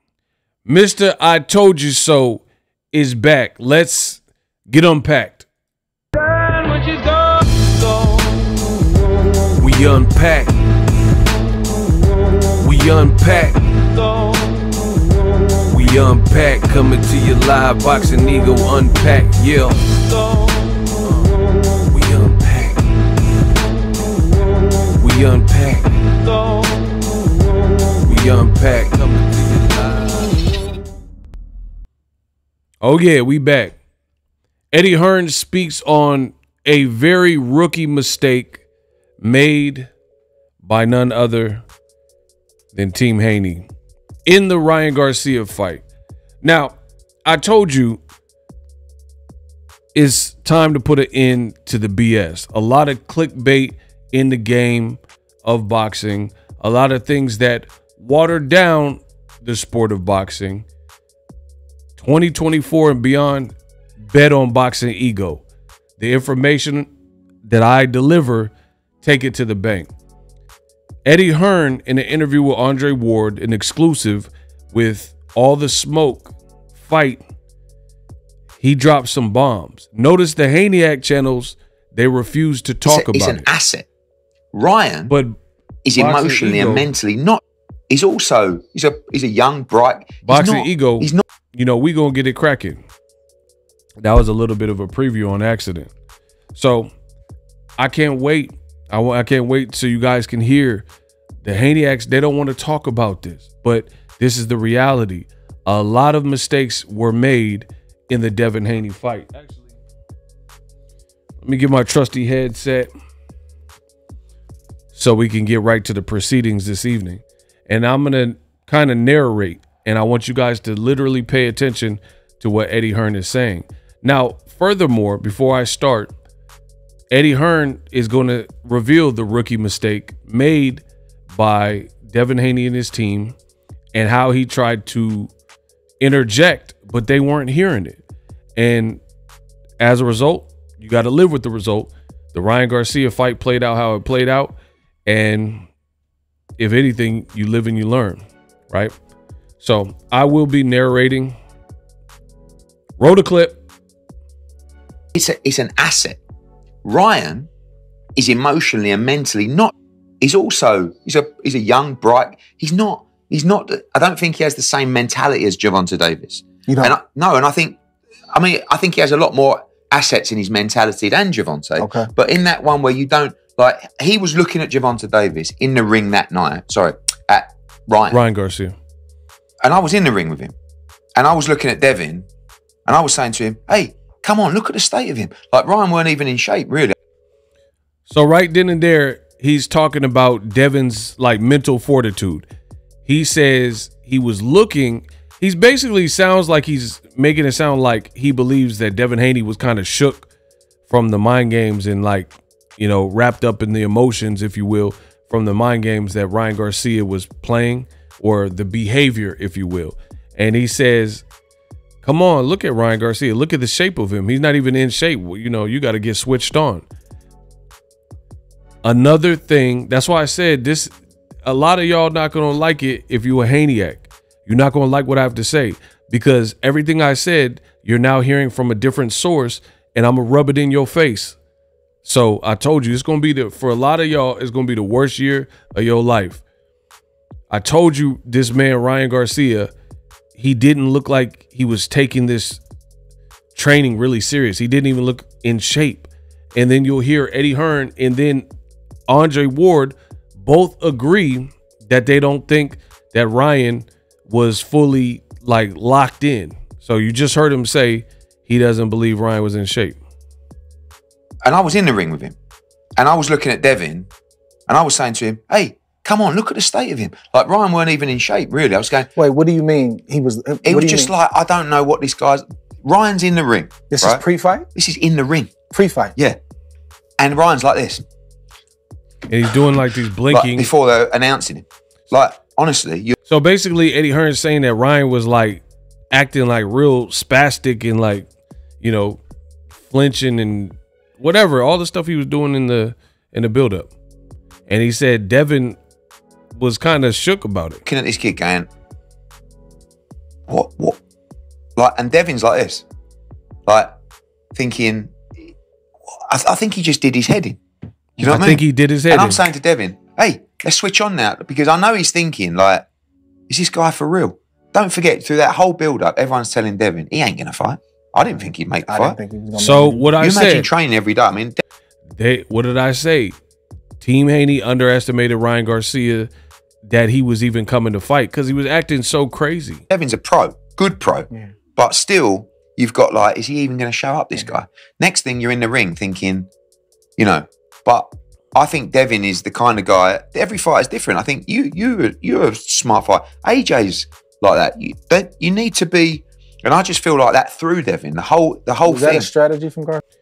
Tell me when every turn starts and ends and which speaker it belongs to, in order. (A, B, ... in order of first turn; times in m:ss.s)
0:00.7-0:05.5 A
0:06.2-0:08.5 A
0:09.5-0:10.6 A
0:12.6-0:14.5 A
0:15.6-0:23.0 A
0:24.9-0:26.7 A
0:28.0-0:30.5 A
0:32.8-0:33.8 A
0:34.7-0:38.6 A
0:39.2-0:39.9 A
0:40.6-0:41.6 A
0:42.7-0:43.7 A
0:44.3-0:45.8 A
0:46.4-0:48.0 A
0:50.0-1:00.7 A
1:02.0-1:03.5 A
1:04.1-1:05.4 A
1:06.0-1:06.9 A
1:07.4-1:09.9 A
1:11.0-1:17.2 A
1:18.6-1:23.5 A
1:22.9-1:23.9 B
1:24.5-1:25.2 B
1:25.1-1:25.4 A
1:25.8-1:31.2 B
1:26.0-1:26.9 A
1:30.3-1:32.8 A
1:34.0-1:35.9 A
1:36.5-1:36.9 A
1:37.8-1:40.9 A
1:41.4-1:49.7 A
1:51.4-1:52.9 A
1:55.0-2:06.1 A
2:07.1-2:13.4 A
2:13.9-2:15.3 A
2:16.0-2:18.0 A
2:18.6-2:19.0 A
2:19.8-2:25.6 A
2:26.6-2:28.9 A
2:29.6-2:31.4 A
2:33.0-2:33.6 A
2:35.1-2:36.2 B
2:36.8-2:37.5 B
2:38.2-2:47.8 B
2:46.7-2:46.9 C
2:48.3-2:58.2 B
2:51.8-2:52.1 C
2:58.1-2:58.8 A
2:59.6-3:00.6 B
3:01.2-3:02.3 B
3:02.9-3:06.9 B
3:08.1-3:12.5 A
3:13.1-3:20.3 A
3:20.9-3:31.2 A
3:32.0-3:36.9 A
3:38.8-3:40.9 A
3:41.4-3:51.4 A
3:52.0-3:56.4 A
3:57.5-3:59.7 A
4:00.4-4:02.6 A
4:03.6-4:08.5 A
4:09.1-4:20.0 A
4:21.4-4:22.4 B
4:23.0-4:24.1 B
4:24.7-4:29.1 B
4:29.2-4:31.1 C
4:30.6-4:34.2 B
4:33.9-4:34.7 C
4:34.8-4:35.5 B
4:35.7-4:36.2 C
4:37.2-4:38.0 B
4:39.3-4:40.7 A
4:40.3-4:43.2 B
4:43.3-4:48.3 A
4:48.8-4:49.2 A
4:49.8-4:53.9 A
4:54.7-4:55.8 A
4:56.6-4:57.8 A
4:57.8-4:58.7 B
5:00.5-5:01.0 B
5:01.8-5:02.8 B
5:03.7-5:04.0 B
5:04.5-5:05.5 B
5:06.1-5:07.6 B
5:08.2-5:12.9 B
5:08.2-5:09.5 A
5:13.5-5:19.2 B
5:18.9-5:20.1 C
5:19.6-5:20.7 A
5:19.7-5:21.6 B
5:22.2-5:23.3 A
5:24.0-5:26.3 A
5:26.8-5:29.8 A
5:29.9-5:36.5 B
5:37.2-5:49.3 B
5:48.9-5:50.0 C